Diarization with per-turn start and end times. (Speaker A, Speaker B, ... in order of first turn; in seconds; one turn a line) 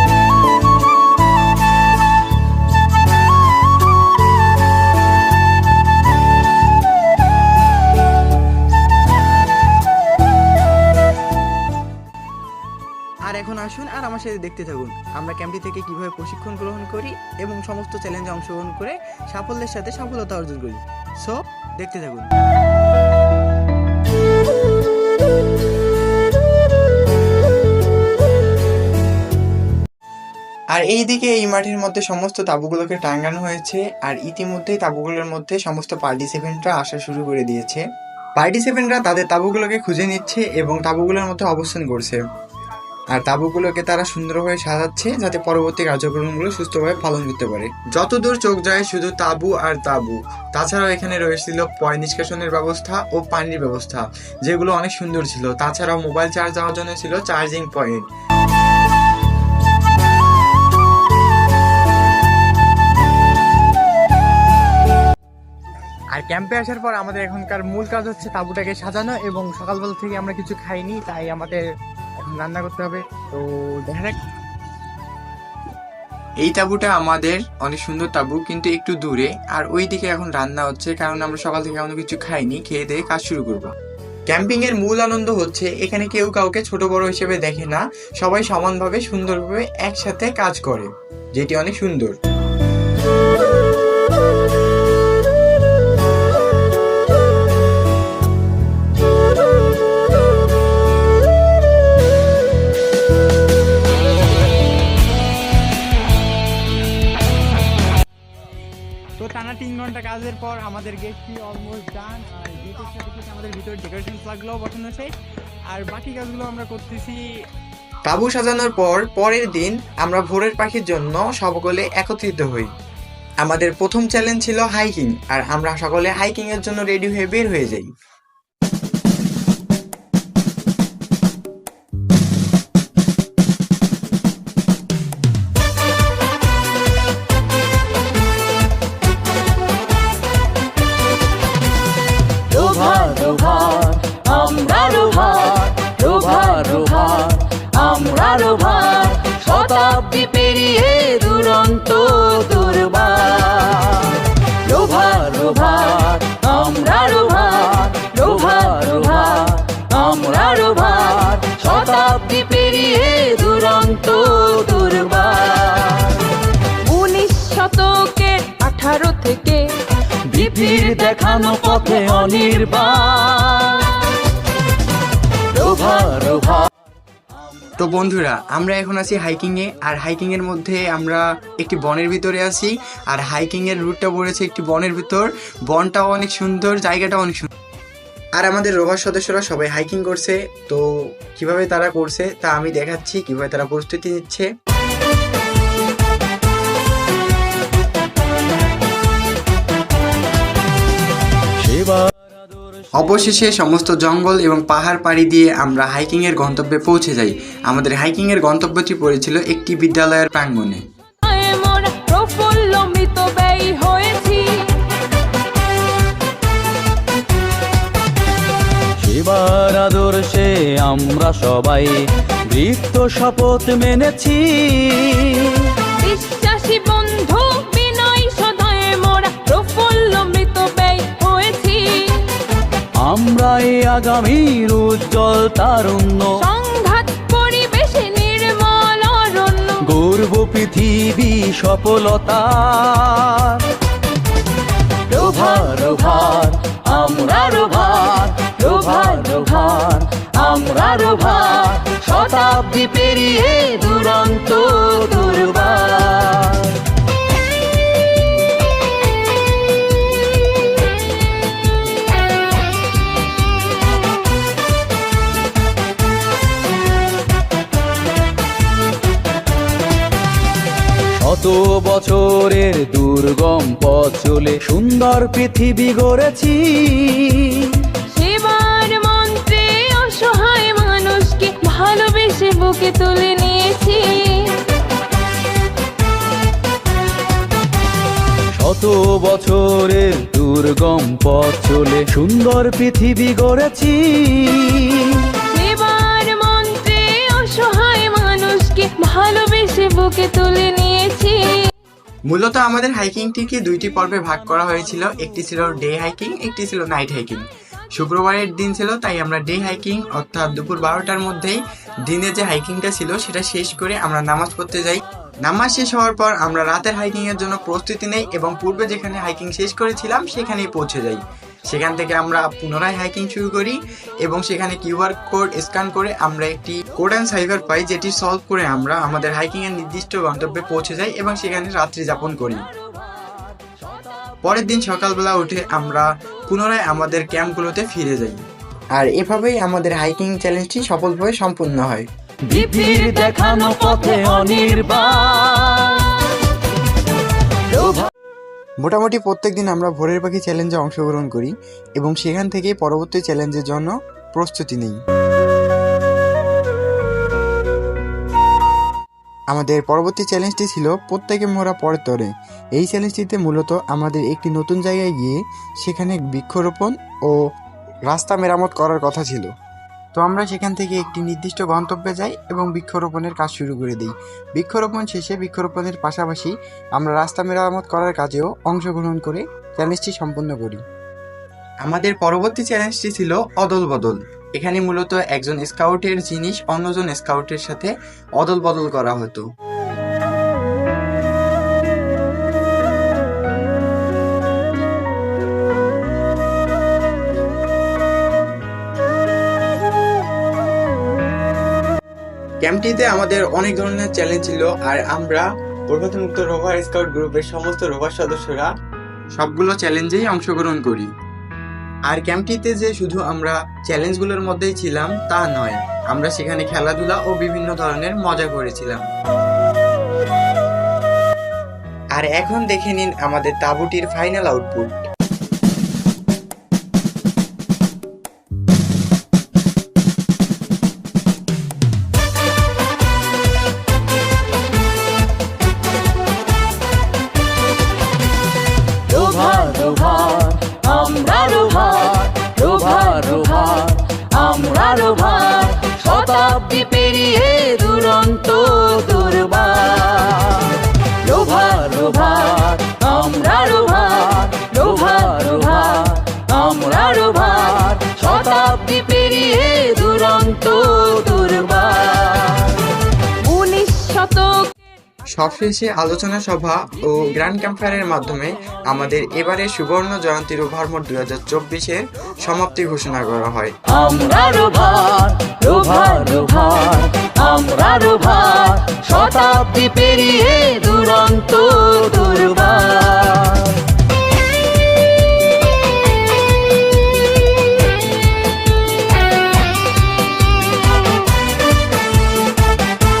Speaker A: 13.2-22.3
Speaker A: 30.7-37.8
Speaker A: 38.4-42.2
Speaker A: 43.1-58.0
Speaker A: 66.1-71.6
Speaker A: 72.2-74.2
Speaker A: 76.4-83.7
Speaker A: 84.3-92.1
Speaker A: 109.2-115.1
Speaker A: 115.7-117.2
Speaker A: 118.0-122.7
Speaker A: 123.4-127.9
Speaker B: 142.5-166.3
Speaker C: 158.2-159.0
Speaker C: 166.8-169.7
Speaker B: 170.3-173.9
Speaker B: 175.5-176.7
Speaker A: 177.8-187.5
Speaker A: 188.4-194.5
Speaker B: 201.6-203.4
Speaker A: 202.9-210.8
Speaker C: 211.2-214.8
Speaker B: 219.0-225.7
Speaker C: 226.0-232.3
Speaker B: 233.0-236.4
Speaker C: 236.4-239.8
Speaker B: 239.8-243.7
Speaker B: 245.1-256.8
Speaker B: 271.1-277.9
Speaker C: 278.1-284.6
Speaker B: 288.5-295.3
Speaker C: 295.5-301.6
Speaker A: 302.3-307.4
Speaker A: 307.9-332.6
Speaker A: 334.4-338.4
Speaker A: 338.9-342.1
Speaker B: 342.4-346.1
Speaker B: 347.7-348.1
Speaker A: 348.8-355.0
Speaker A: 359.5-367.3
Speaker A: 368.1-369.5
Speaker A: 370.1-380.8
Speaker A: 381.8-389.4
Speaker A: 402.6-408.7
Speaker A: 409.4-411.1
Speaker A: 412.1-419.1
Speaker A: 422.1-424.9
Speaker B: 439.0-462.8
Speaker C: 455.0-455.3
Speaker C: 463.4-464.7
Speaker A: 465.3-473.7
Speaker B: 473.9-483.8